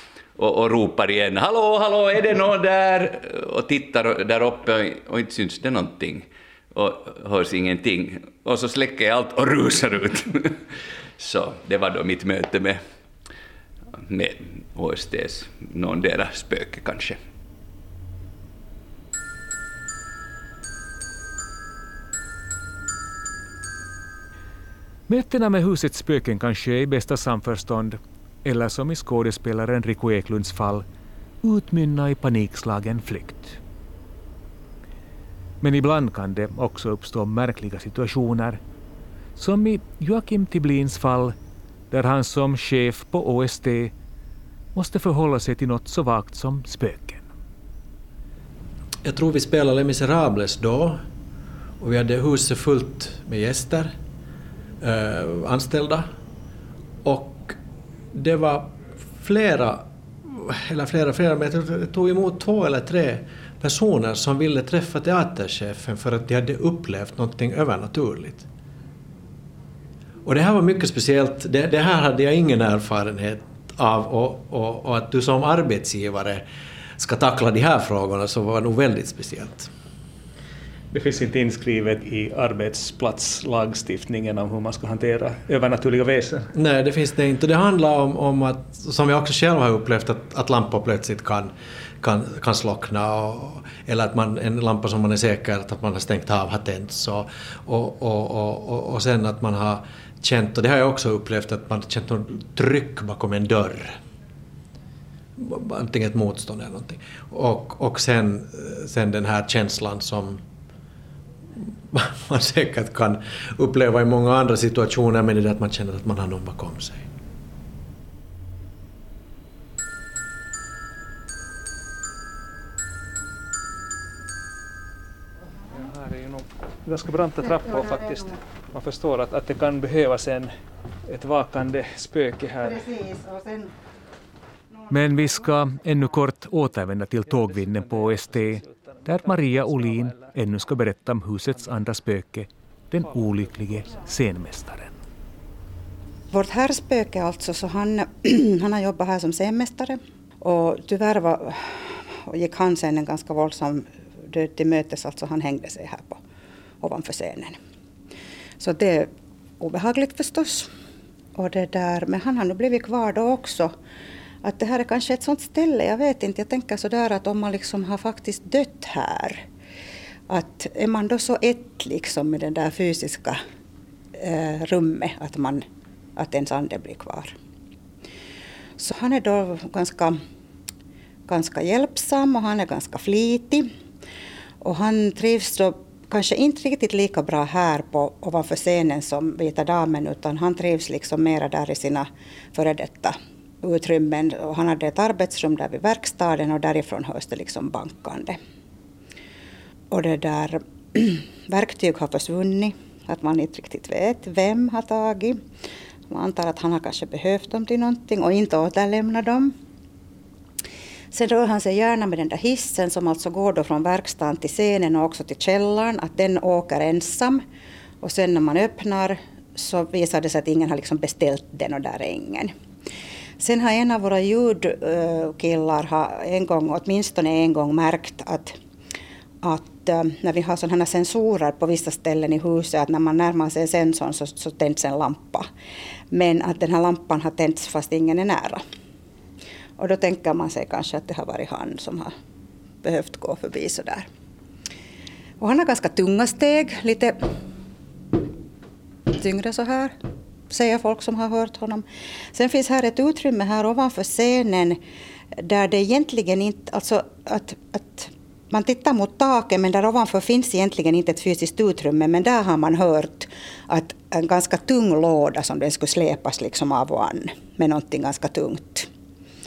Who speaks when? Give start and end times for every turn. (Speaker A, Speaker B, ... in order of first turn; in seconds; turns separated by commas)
Speaker A: 0.3-12.8, Speaker A: 14.0-17.2, Speaker B: 25.1-30.8, Speaker B: 31.4-33.6, Speaker B: 35.6-38.6, Speaker B: 39.4-41.3, Speaker B: 41.9-43.9, Speaker B: 44.7-47.2, Speaker C: 49.0-51.0, Speaker C: 51.8-53.9, Speaker C: 54.8-56.1, Speaker C: 57.0-57.6, Speaker C: 58.1-68.5, Speaker C: 70.2-76.4, Speaker C: 77.0-79.7, Speaker D: 80.9-86.5, Speaker C: 86.5-104.0, Speaker C: 105.4-110.4, Speaker C: 111.6-117.1, Speaker D: 125.7-130.5, Speaker D: 131.1-132.9, Speaker E: 132.8-133.7, Speaker B: 134.9-144.9, Speaker D: 137.6-140.3, Speaker E: 146.3-156.2, Speaker E: 156.8-157.6, Speaker E: 158.6-160.7, Speaker E: 161.3-163.7, Speaker E: 164.4-169.4, Speaker E: 170.3-173.4, Speaker E: 174.1-175.6, Speaker E: 176.2-177.3, Speaker E: 178.8-180.2, Speaker E: 181.3-183.7, Speaker E: 184.6-198.4, Speaker E: 199.9-205.4, Speaker E: 206.1-209.5, Speaker E: 211.1-217.4, Speaker E: 218.0-222.5, Speaker E: 223.4-228.6, Speaker E: 229.4-235.5, Speaker E: 236.1-238.6, Speaker E: 239.8-242.1, Speaker E: 242.8-244.1, Speaker E: 245.4-247.2, Speaker E: 249.1-249.9, Speaker E: 250.5-254.8, Speaker E: 255.4-268.9